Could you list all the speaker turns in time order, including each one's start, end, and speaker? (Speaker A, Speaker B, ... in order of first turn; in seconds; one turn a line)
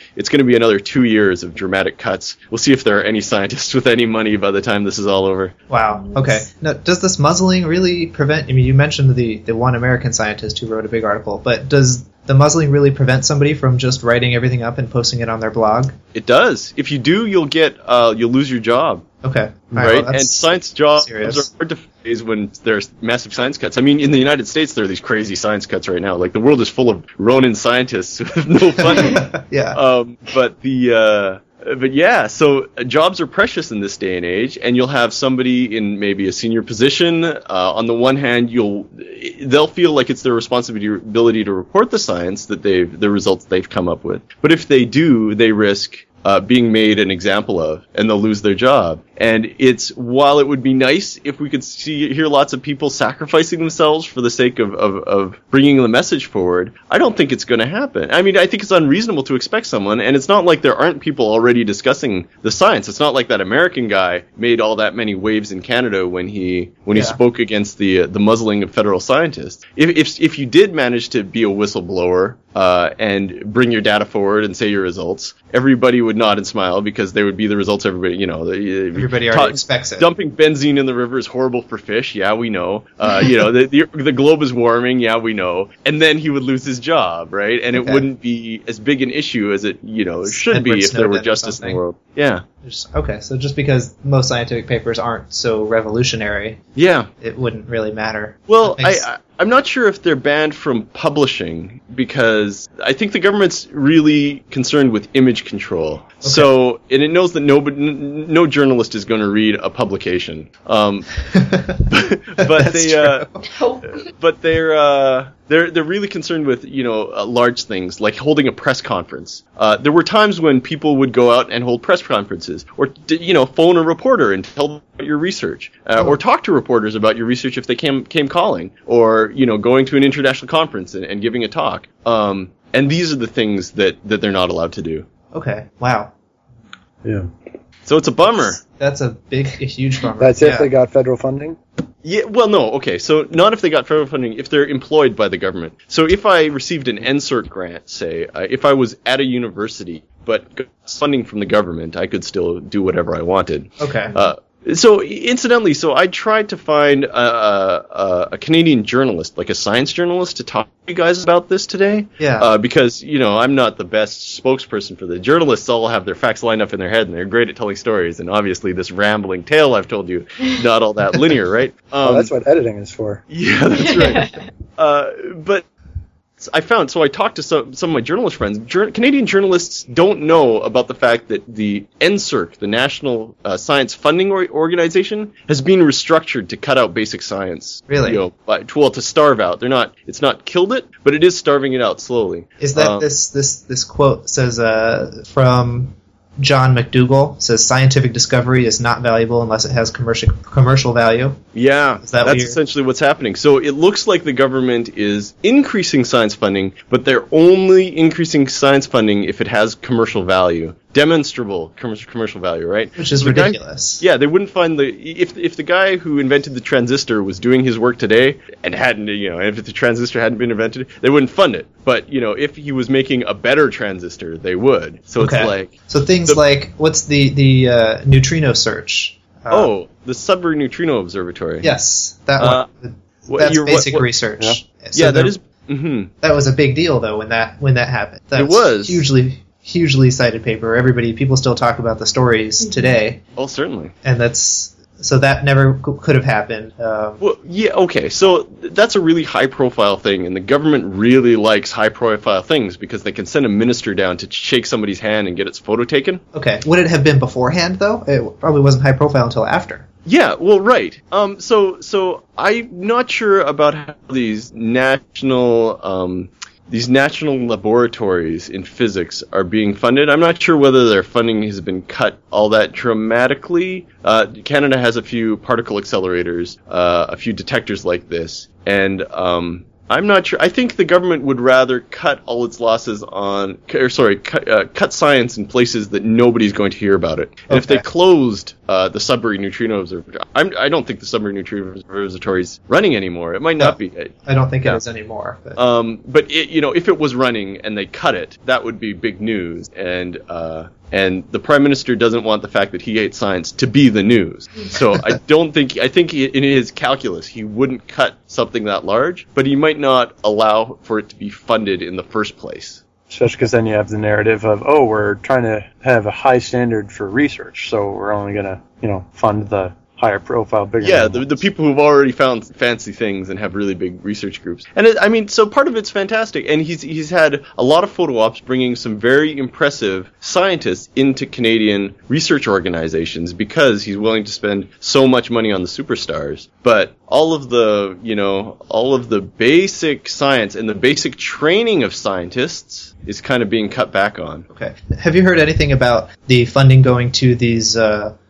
Speaker A: 0.1-5.5
Speaker B: 5.7-15.9
Speaker C: 5.9-6.4
Speaker A: 16.1-19.0
Speaker B: 19.2-21.4
Speaker A: 19.8-92.4
Speaker B: 28.8-29.8
Speaker B: 66.9-67.2
Speaker B: 78.9-80.1
Speaker B: 87.7-88.0
Speaker B: 90.3-91.8
Speaker B: 92.6-96.6
Speaker A: 96.8-97.1
Speaker B: 97.2-99.0
Speaker A: 98.5-111.2
Speaker B: 106.2-106.5
Speaker B: 111.3-111.9
Speaker A: 111.9-113.4
Speaker B: 112.4-113.5
Speaker C: 113.4-114.0
Speaker A: 113.9-135.0
Speaker B: 135.3-136.1
Speaker A: 137.8-138.6
Speaker B: 138.6-140.7
Speaker D: 140.2-141.6
Speaker A: 142.0-172.3
Speaker B: 153.8-154.3
Speaker B: 162.2-162.5
Speaker D: 172.0-173.2
Speaker A: 173.3-175.6
Speaker C: 173.7-174.4
Speaker A: 176.4-193.1
Speaker B: 187.9-188.2
Speaker B: 192.6-201.4
Speaker A: 201.5-225.7
Speaker B: 202.0-202.6
Speaker B: 212.9-214.0
Speaker B: 225.2-229.7
Speaker A: 229.5-231.7
Speaker B: 231.6-235.3
Speaker A: 232.4-232.7
Speaker A: 233.3-234.1
Speaker A: 234.9-236.1
Speaker B: 236.2-243.2
Speaker A: 238.3-239.0
Speaker C: 242.6-243.0
Speaker A: 243.3-243.9
Speaker B: 244.0-247.2
Speaker A: 247.2-256.2
Speaker B: 256.3-259.8
Speaker A: 260.1-294.1
Speaker B: 287.5-287.9
Speaker B: 293.6-295.6
Speaker A: 295.6-312.8
Speaker D: 313.1-321.3
Speaker A: 320.8-344.4
Speaker B: 344.5-348.1